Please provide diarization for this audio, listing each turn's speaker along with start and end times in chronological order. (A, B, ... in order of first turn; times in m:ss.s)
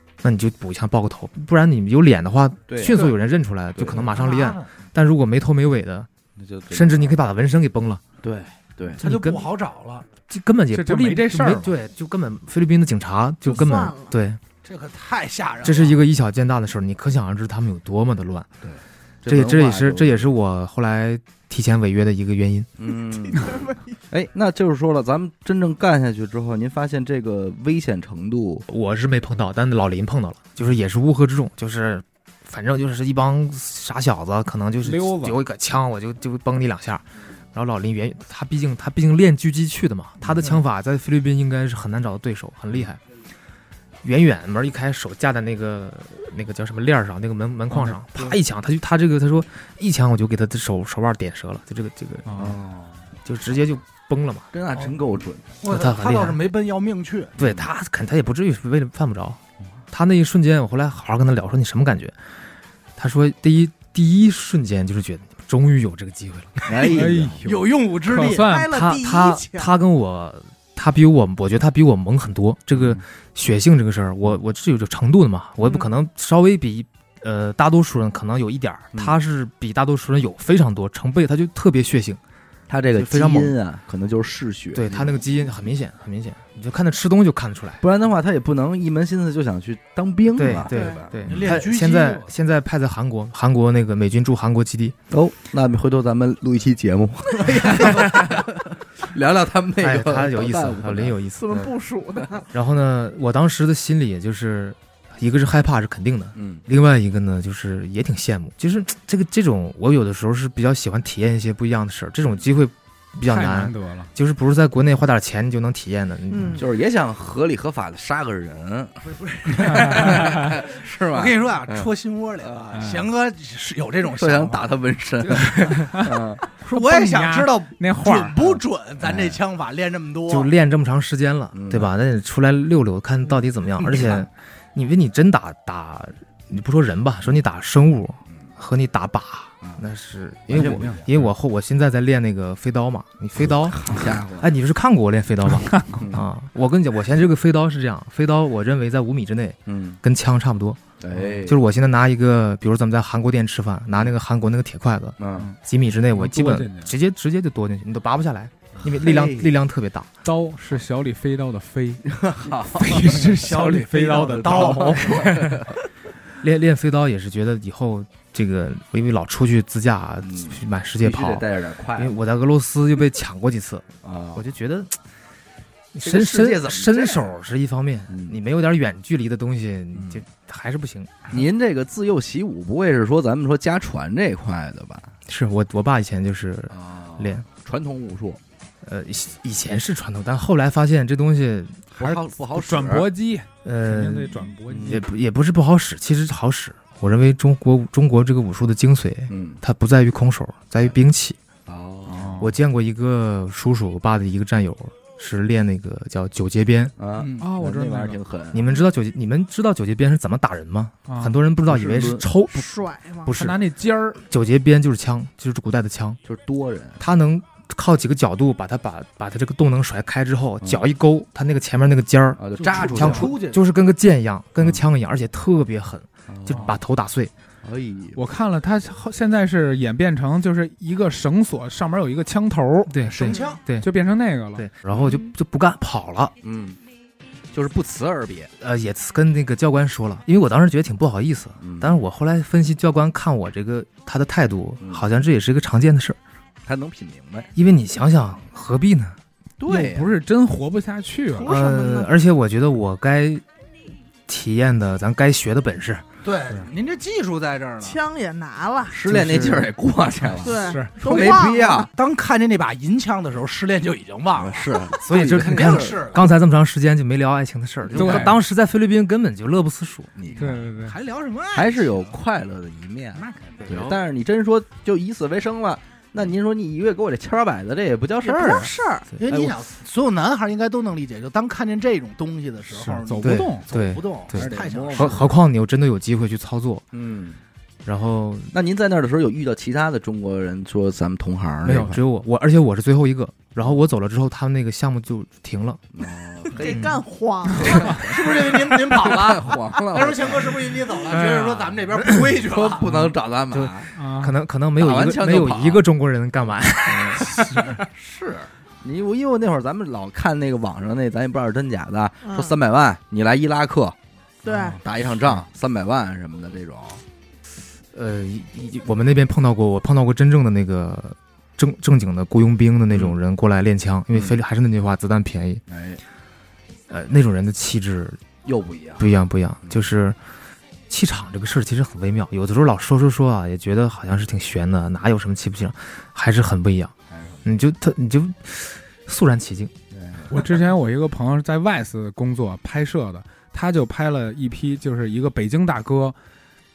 0:00.2-0:06.1 A
0:02.7-0:03.1 B
0:03.9-0:04.7 C
0:06.4-0:07.2 B
0:06.7-0:08.0 A
0:08.2-0:09.0 B
0:09.0-0:09.5 A
0:09.0-0:10.0 C
0:10.3-0:14.4 A
0:10.7-0:11.7 D
0:13.5-0:14.1 E
0:14.6-0:16.0 C
0:15.6-0:18.5 A
0:18.6-0:20.2 B
0:19.2-0:22.7 A
0:22.8-0:28.6 B
0:23.0-0:24.0 E
0:28.7-0:43.0 A
0:34.8-0:35.4 D
0:44.0-0:52.4 A
0:47.7-0:48.0 D
0:52.3-0:52.6 D
0:52.3-0:53.0 B
0:53.2-0:54.5 A
0:54.5-0:55.5 B
0:55.6-0:57.3 C
0:55.6-0:56.4 A
0:57.4-0:59.4 A
0:59.9-1:02.2 A
1:03.0-1:06.7 A
1:06.6-1:07.7 B
1:06.8-1:08.7 D
1:07.0-1:08.5 C
1:08.3-1:09.7 E
1:08.7-1:22.2 A
1:22.7-1:25.2 B
1:22.9-1:23.5 A
1:24.7-1:27.8 A
1:27.8-1:31.6 B
1:30.3-1:35.0 A
1:30.7-1:31.1 E
1:31.2-1:32.3 C
1:35.1-1:41.7 B
1:37.8-1:38.3 A
1:39.8-1:41.5 A
1:41.4-1:42.4 E
1:42.5-1:56.6 A
1:46.3-1:46.6 B
1:53.2-1:54.1 D
1:56.3-1:56.6 E
1:56.6-2:02.6 B
1:59.0-2:04.7 C
2:02.7-2:03.1 D
2:04.1-2:06.4 B
2:05.4-2:06.2 D
2:06.6-2:10.5 C
2:06.7-2:08.5 D
2:09.0-2:09.4 B
2:10.3-2:40.1 A
2:11.5-2:11.9 B
2:20.5-2:21.1 B
2:20.5-2:21.1 D
2:23.4-2:24.5 B
2:25.5-2:26.0 D
2:26.0-2:26.2 B
2:29.7-2:30.0 B
2:31.0-2:31.6 B
2:35.2-2:35.5 B
2:36.1-2:36.9 D
2:38.8-2:39.5 B
2:40.2-2:42.0 D
2:42.1-2:43.3 B
2:42.6-2:45.7 D
2:43.2-2:45.4 C
2:44.2-2:45.7 B
2:46.4-2:54.9 A
2:50.2-2:52.1 B
2:54.0-2:54.4 B
2:55.9-3:01.3 A
2:56.0-2:57.3 B
2:58.1-2:58.4 B
2:59.9-3:00.2 B
3:01.3-3:05.1 B
3:05.3-3:07.4 A
3:06.7-3:08.4 B
3:08.8-3:11.9 A
3:11.9-3:13.1 B
3:12.0-3:15.0 D
3:13.6-3:21.4 A
3:14.7-3:15.0 B
3:19.3-3:19.6 B
3:21.7-3:22.4 B
3:22.1-3:22.5 D
3:22.4-3:26.9 A
3:27.0-3:28.6 B
3:27.4-3:28.2 D
3:28.5-3:32.7 A
3:31.1-3:31.4 D
3:31.7-3:32.2 B
3:32.5-3:33.3 E
3:33.2-3:33.6 A
3:33.3-3:34.2 D
3:34.2-3:36.2 A
3:36.2-3:37.0 B
3:37.0-3:47.3 A
3:42.4-3:43.4 B
3:42.6-3:43.6 C
3:42.8-3:43.3 D
3:46.3-3:46.7 B
3:47.6-3:48.2 B
3:48.2-3:52.9 D
3:52.9-3:53.9 A
3:53.0-3:53.6 C
3:53.8-3:54.6 D
3:54.5-3:56.3 A
3:56.4-3:56.8 B
3:57.5-3:58.5 B
3:58.6-4:06.2 A
4:01.6-4:02.0 B
4:04.8-4:05.1 B
4:06.6-4:07.5 B
4:07.5-4:09.2 A
4:09.6-4:10.1 B
4:09.6-4:11.5 D
4:11.3-4:12.1 E
4:11.4-4:13.4 A
4:14.3-4:16.0 A
4:16.2-4:18.0 C
4:17.8-4:19.0 E
4:18.9-4:21.9 B
4:19.1-4:19.7 D
4:19.1-4:19.6 A
4:20.4-4:21.9 E
4:20.4-4:21.0 D
4:21.0-4:26.2 C
4:24.4-4:26.2 B
4:25.0-4:30.1 A
4:27.9-4:28.3 B
4:27.9-4:28.4 D
4:30.2-4:30.6 B
4:30.3-4:31.0 D
4:30.4-4:32.2 C
4:31.5-4:38.7 B
4:33.2-4:33.9 C
4:33.6-4:34.0 A
4:38.2-4:39.1 E
4:39.2-4:45.3 C
4:39.3-4:39.6 B
4:42.8-4:43.6 D
4:42.8-4:46.8 A
4:44.3-4:45.3 B
4:46.9-4:47.4 B
4:47.8-4:48.5 A
4:48.5-4:52.0 B
4:51.6-4:55.8 A
4:55.9-4:56.8 B
4:56.5-4:58.0 E
4:56.7-4:57.0 A
4:57.5-5:00.8 B
4:57.7-5:02.9 C
5:02.0-5:02.2 A
5:02.4-5:03.9 B
5:03.5-5:07.7 A
5:04.0-5:04.3 D
5:04.8-5:05.8 B
5:06.9-5:14.0 B
5:12.2-5:12.6 E
5:14.4-5:14.8 E
5:14.7-5:17.0 B
5:17.9-5:25.6 A
5:22.9-5:23.2 B
5:25.7-5:26.0 B
5:26.9-5:28.2 A
5:28.4-5:29.1 B
5:29.0-5:30.2 A
5:30.9-5:36.9 A
5:37.1-5:37.4 B
5:37.4-5:39.7 A
5:39.9-5:40.4 B
5:40.3-5:46.1 D